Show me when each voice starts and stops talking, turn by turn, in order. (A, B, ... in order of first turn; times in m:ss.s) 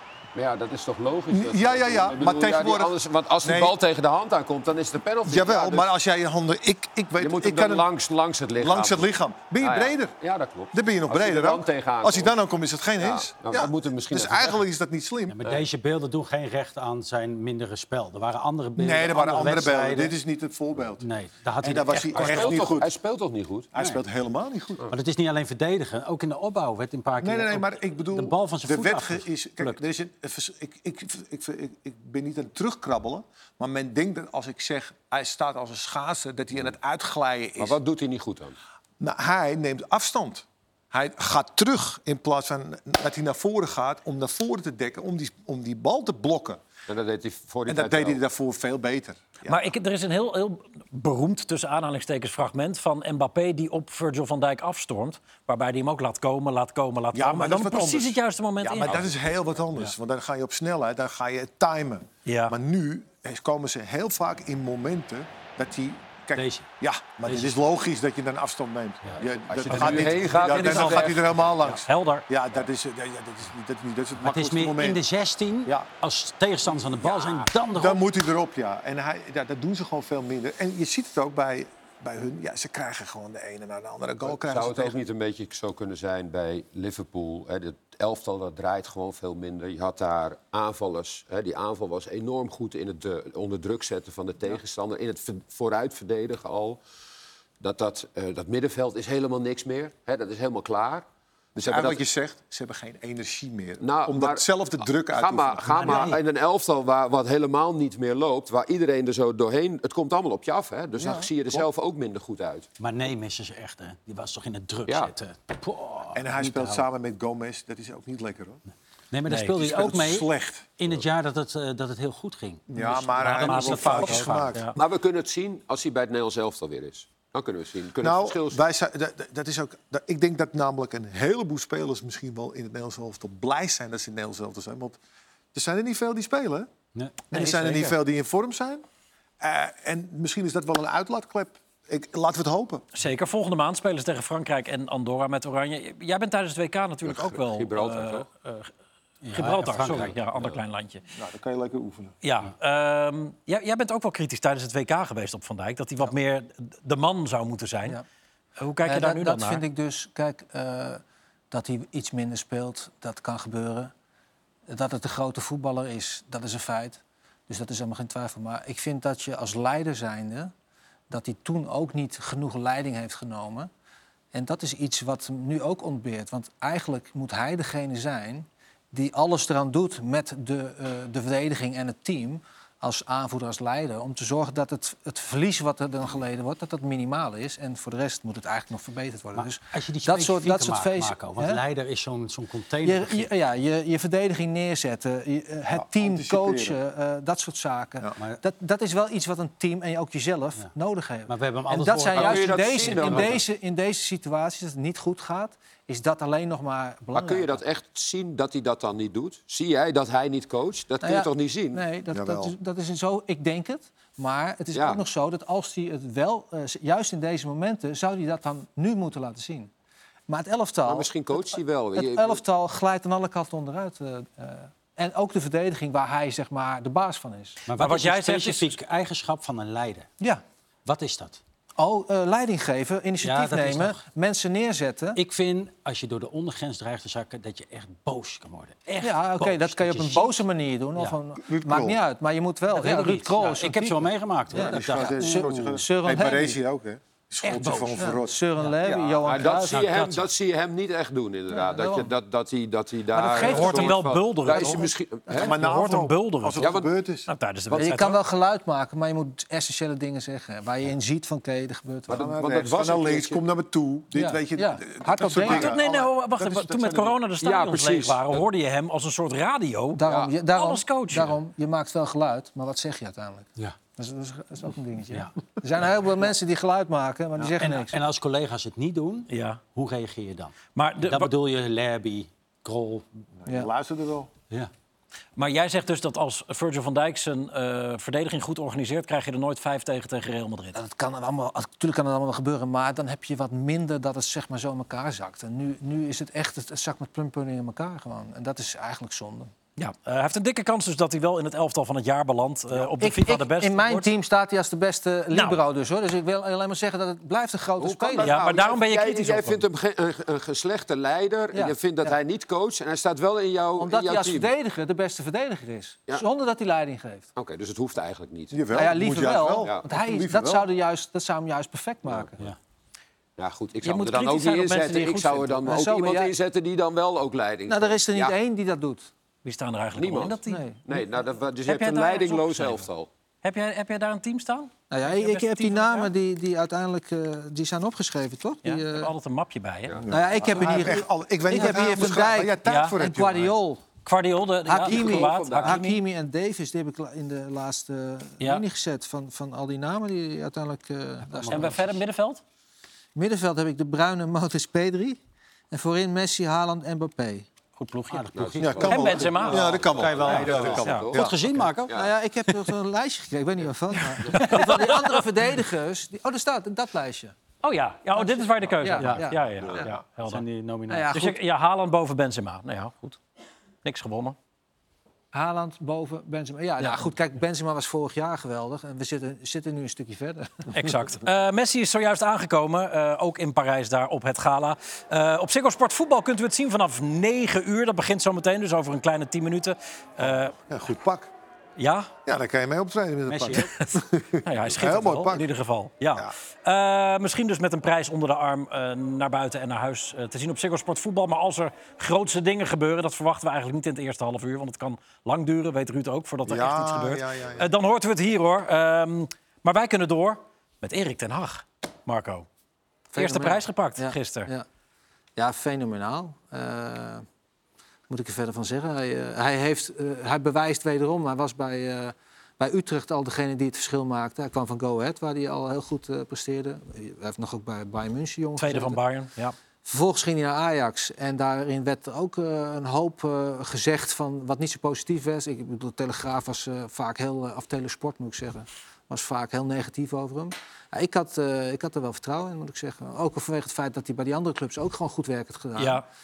0:00.3-0:05.9 A
0:01.3-0:03.8 B
0:05.2-0:07.9 B
0:07.2-0:12.3 A
0:08.6-0:10.1 B
0:10.7-0:15.4 B
0:13.0-0:14.6 A
0:15.3-0:20.1 C
0:18.8-0:21.0 B
0:21.0-0:22.8 C
0:21.6-0:22.9 B
0:22.1-0:23.7 A
0:23.7-0:24.9 B
0:24.9-0:29.8 C
0:27.2-0:37.8 B
0:37.6-0:38.6 A
0:39.0-0:46.6 B
0:46.9-0:48.2 A
0:47.7-0:49.7 B
0:49.5-0:59.0 D
0:57.1-1:15.0 B
1:02.2-1:02.6 D
1:06.3-1:06.6 C
1:07.2-1:07.6 C
1:09.5-1:11.4 A
1:09.7-1:12.2 D
1:14.2-1:18.0 C
1:15.6-1:15.9 B
1:17.0-1:25.0 B
1:24.2-1:36.8 A
1:37.6-1:42.0 A
1:41.6-1:46.2 B
1:43.8-1:44.4 A
1:45.1-1:52.7 A
1:45.7-1:46.2 C
1:51.0-1:51.6 B
1:52.8-1:56.8 C
1:54.9-1:55.1 A
1:56.1-1:58.6 B
1:59.1-2:04.7 C
1:59.3-1:59.6 D
1:59.5-2:00.7 B
2:02.7-2:04.6 B
2:02.8-2:04.8 D
2:04.8-2:08.6 A
2:08.0-2:15.0 B
2:15.5-2:16.7 B
2:16.9-2:17.9 C
2:17.3-2:18.8 B
2:19.4-2:22.8 B
2:22.9-2:28.7 D
2:27.0-2:28.2 A
2:29.2-2:30.2 C
2:29.3-2:31.0 D
2:29.9-2:30.6 A
2:31.1-2:32.2 B
2:32.2-2:38.0 D
2:38.6-2:39.6 D
2:38.8-2:43.9 E
2:44.7-2:50.5 E
2:51.1-2:53.7 E
2:54.3-3:11.6 E
3:09.3-3:13.3 C
3:12.8-3:27.6 E
3:15.7-3:16.8 B
3:21.3-3:23.4 C
3:22.1-3:23.4 A
3:27.1-3:31.8 A
3:31.0-3:39.7 E
3:32.1-3:32.6 B
3:34.7-3:35.0 A
3:40.3-3:47.6 E
3:40.8-3:42.4 A
3:47.7-3:50.1 C
3:47.7-3:48.8 D
3:50.8-3:51.4 C
3:51.8-3:55.2 E
3:53.2-3:54.0 C
3:55.1-4:00.4 C
3:59.0-4:06.6 E
4:01.4-4:02.0 B
4:02.7-4:05.4 C
4:02.8-4:03.2 D
4:04.5-4:09.4 B
4:07.4-4:08.0 D
4:08.0-4:09.8 E
4:09.2-4:15.6 A
4:09.7-4:10.2 D
4:11.5-4:12.1 E
4:13.1-4:14.0 E
4:13.4-4:16.7 D
4:14.5-4:14.8 E
4:15.3-4:17.3 B
4:16.6-4:16.9 A
4:17.3-4:18.2 D
4:17.7-4:18.2 A
4:17.8-4:22.3 E
4:22.1-4:23.4 A
4:22.1-4:27.2 B
4:24.1-4:25.8 E
4:25.4-4:31.4 D
4:27.4-4:28.4 A
4:29.9-4:38.0 E
4:30.0-4:30.3 A
4:37.6-4:43.0 C
4:39.3-4:39.6 D
4:40.8-4:41.3 D
4:43.4-4:44.3 B
4:45.4-4:50.8 D
4:50.7-4:59.5 E
4:59.8-5:04.1 D
5:03.0-5:08.4 E
5:05.3-5:05.6 D
5:07.8-5:14.5 A
5:08.2-5:09.6 D
5:11.5-5:12.2 E
5:13.8-5:17.3 E
5:17.4-5:18.6 A
5:18.5-5:20.7 B
5:18.7-5:22.5 E
5:23.4-5:28.4 A
5:23.8-5:25.6 D
5:25.6-5:26.3 E
5:27.7-5:29.1 E
5:29.4-5:30.6 D
5:30.0-5:33.1 A
5:30.5-5:30.8 E
5:31.6-5:32.9 D
5:33.4-5:36.1 D
5:34.9-5:39.1 E
5:38.6-5:40.0 D
5:40.0-5:43.5 B
5:40.1-5:43.8 E
5:42.6-5:43.0 D
5:44.0-5:46.0 D
5:44.7-5:51.8 E
5:44.8-5:45.8 A
5:51.3-5:51.8 C
5:51.5-5:52.4 D
5:53.1-5:55.2 E
5:55.7-5:57.5 E
5:57.8-5:58.2 D
5:58.1-6:01.9 C
5:58.3-6:01.3 A
5:58.6-6:01.4 B
5:58.8-5:59.8 D
6:01.9-6:07.3 E
6:04.2-6:05.2 D
6:07.6-6:10.4 D
6:08.2-6:10.0 E
6:08.9-6:09.3 C
6:10.2-6:11.1 C
6:10.9-6:11.4 E
6:11.1-6:13.2 D
6:13.8-6:14.4 D
6:15.3-6:20.7 E
6:20.7-6:30.6 D
6:30.2-6:31.3 B
6:31.8-6:32.1 D
6:32.2-6:35.5 B
6:33.3-6:33.7 C
6:34.4-6:52.5 D
6:46.4-6:47.7 B
6:53.1-6:54.6 E
6:53.2-6:54.5 D
6:55.4-6:57.2 E
6:58.1-7:09.0 E
7:08.6-7:09.5 D
7:09.8-7:26.0 E
7:25.8-7:26.0 D